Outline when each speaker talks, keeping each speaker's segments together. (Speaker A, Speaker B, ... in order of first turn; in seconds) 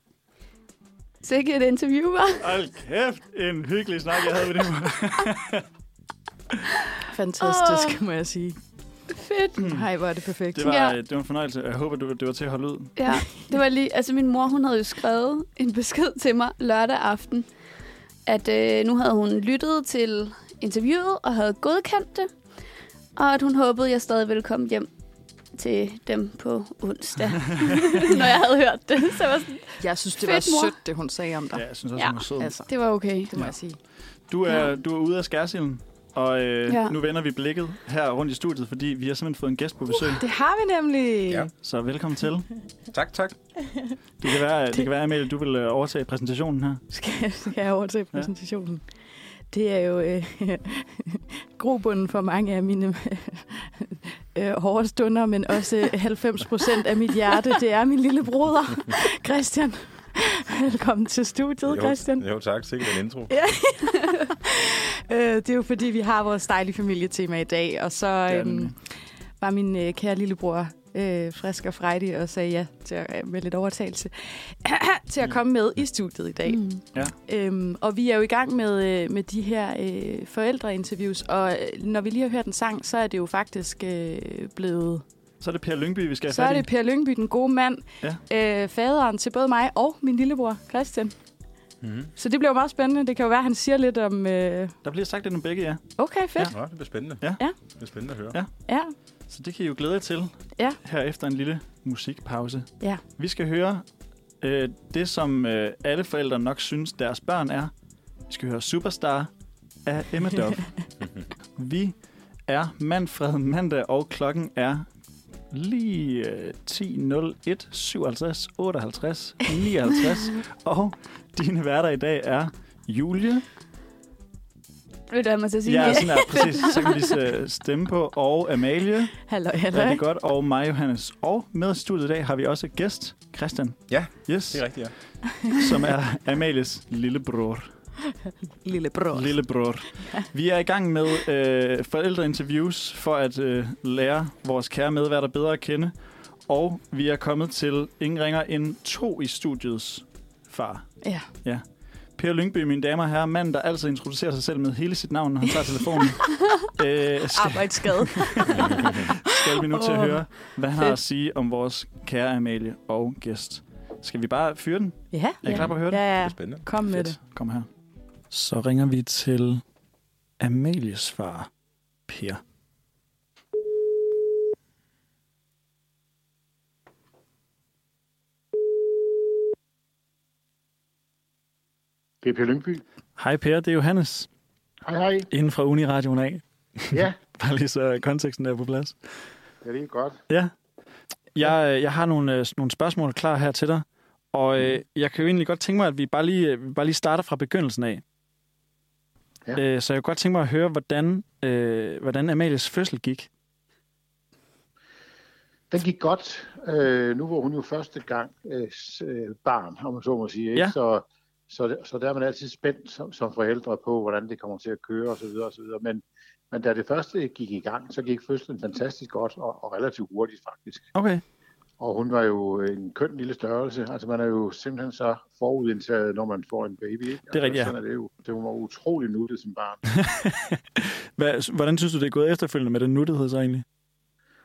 Speaker A: 1.2-2.4, 7.4-8.0, 9.1-9.6, 10.6-10.9, 13.0-17.4, 18.3-22.3, 23.2-24.9, 25.5-30.7, 32.0-33.3, 36.7-37.0, 76.5-76.8, 125.1-126.8
Speaker B: 2.4-5.6, 9.6-9.9, 10.5-12.9, 31.5-32.5, 34.3-40.2, 41.6-42.5, 44.2-46.8, 68.3-68.7, 85.4-86.7, 94.8-95.8, 99.3-103.8, 104.4-107.7, 108.3-109.3, 109.8-110.7, 111.5-112.0, 112.5-114.9, 115.5-123.5, 125.6-129.2, 129.7-134.7, 135.6-137.7, 139.1-145.9, 146.5-151.6, 152.2-166.1, 167.2-167.7, 168.3-169.6, 170.4-171.5, 172.1-172.4, 183.2-184.3, 185.3-189.0, 191.3-198.0, 199.6-203.3, 220.9-221.2, 227.3-227.7, 229.9-233.6
Speaker C: 7.1-8.6, 9.7-10.7, 29.8-31.6, 32.4-32.7, 33.2-33.8, 40.0-41.5, 46.9-48.8, 49.5-62.3, 62.8-68.8, 69.4-85.0, 86.3-91.1, 92.2-94.7, 96.0-96.5, 98.7-98.9, 129.3-130.0, 138.6-139.6, 157.3-160.2, 165.1-167.2
Speaker D: 42.9-43.4, 61.6-63.3, 91.8-92.1, 96.5-97.2, 97.8-98.4, 133.9-134.9, 165.4-166.7
Speaker E: 182.2-182.8, 184.8-185.3, 189.6-190.2, 205.7-220.9, 221.8-229.8